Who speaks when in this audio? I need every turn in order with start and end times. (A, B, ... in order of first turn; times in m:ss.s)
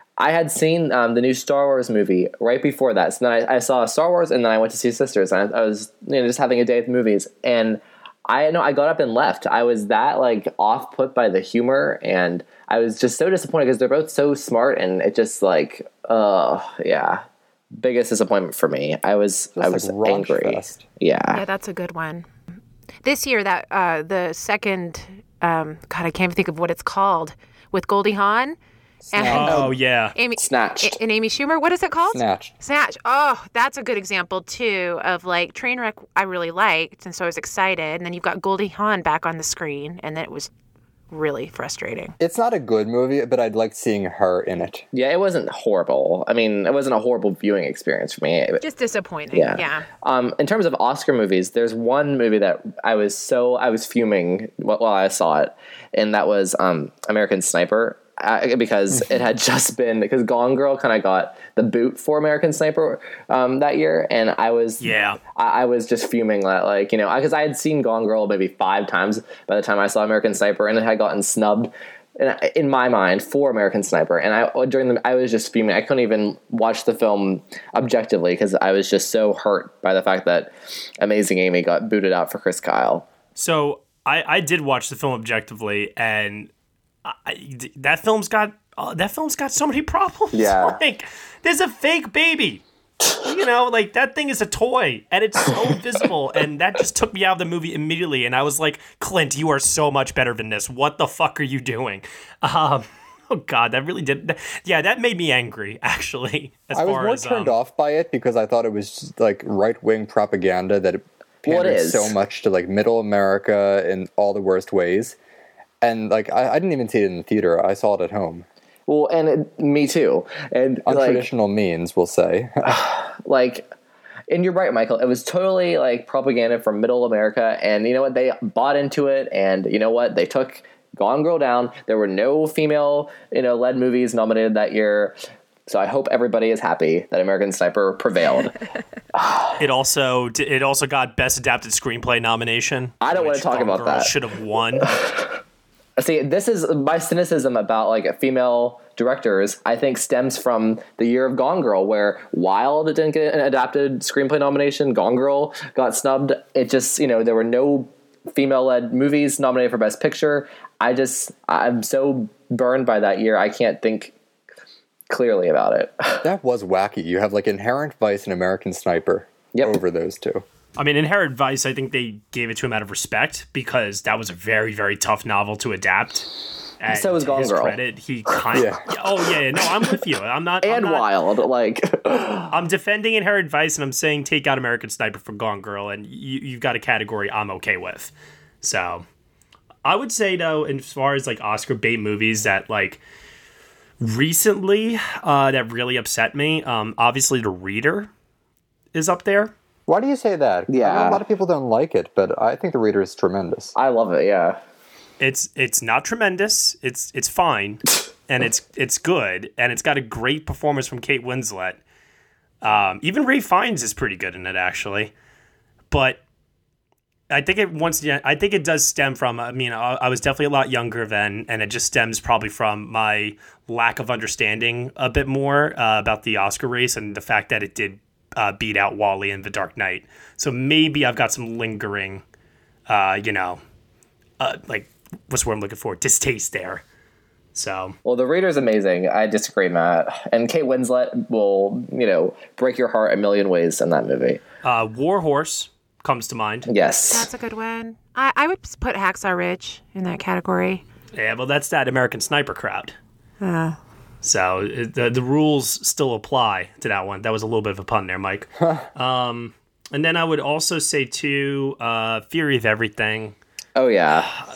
0:00.2-0:17.2 A
0:17.7-0:21.4 A
0:19.6-0:20.8 B
0:21.3-0:22.3 C
0:23.0-0:28.6 C
0:29.0-0:29.7 B
0:29.1-0:40.5 C
0:29.3-0:30.1 D
0:30.4-0:31.0 A
0:32.1-0:32.5 B
0:41.1-0:42.1 C
0:42.2-0:44.8 B
0:44.9-0:48.6 A
0:48.6-0:49.8 C
0:49.3-1:23.0 A
1:04.8-1:05.2 D
1:23.4-1:26.5 D
1:27.0-1:32.6 D
1:30.3-1:30.8 A
1:33.2-1:47.6 D
1:46.7-1:55.2 B
1:51.4-1:52.1 A
1:55.8-1:58.4 B
1:58.9-2:01.2 A
2:00.8-2:02.8 B
2:02.6-2:03.7 A
2:04.3-2:15.2 A
2:15.7-2:18.5 A
2:19.1-2:19.5 A
2:19.6-2:24.9 D
2:23.0-2:24.1 A
2:24.8-2:25.3 A
2:26.0-2:44.1 A
2:45.1-2:46.2 A
2:46.2-2:50.4 B
2:50.8-3:01.1 D
2:56.9-2:57.8 A
2:58.5-2:58.8 B
3:00.6-3:02.5 A
3:02.5-3:09.0 D
3:09.8-3:13.0 D
3:14.0-3:18.1 D
3:18.9-3:19.5 D
3:19.9-3:23.7 B
3:20.7-3:21.2 A
3:23.7-3:24.6 A
3:25.2-3:31.8 D
3:32.6-3:35.1 D
3:35.9-3:36.2 D
3:37.3-3:52.2 D
3:52.9-3:53.6 D
3:54.4-3:56.8 D
3:57.5-3:58.0 D
3:58.0-4:04.4 A
4:04.6-4:06.7 D
4:06.7-4:07.3 A
4:07.1-4:10.8 C
4:11.1-4:12.9 D
4:13.4-4:13.8 C
4:14.2-4:23.3 D
4:23.8-4:24.4 A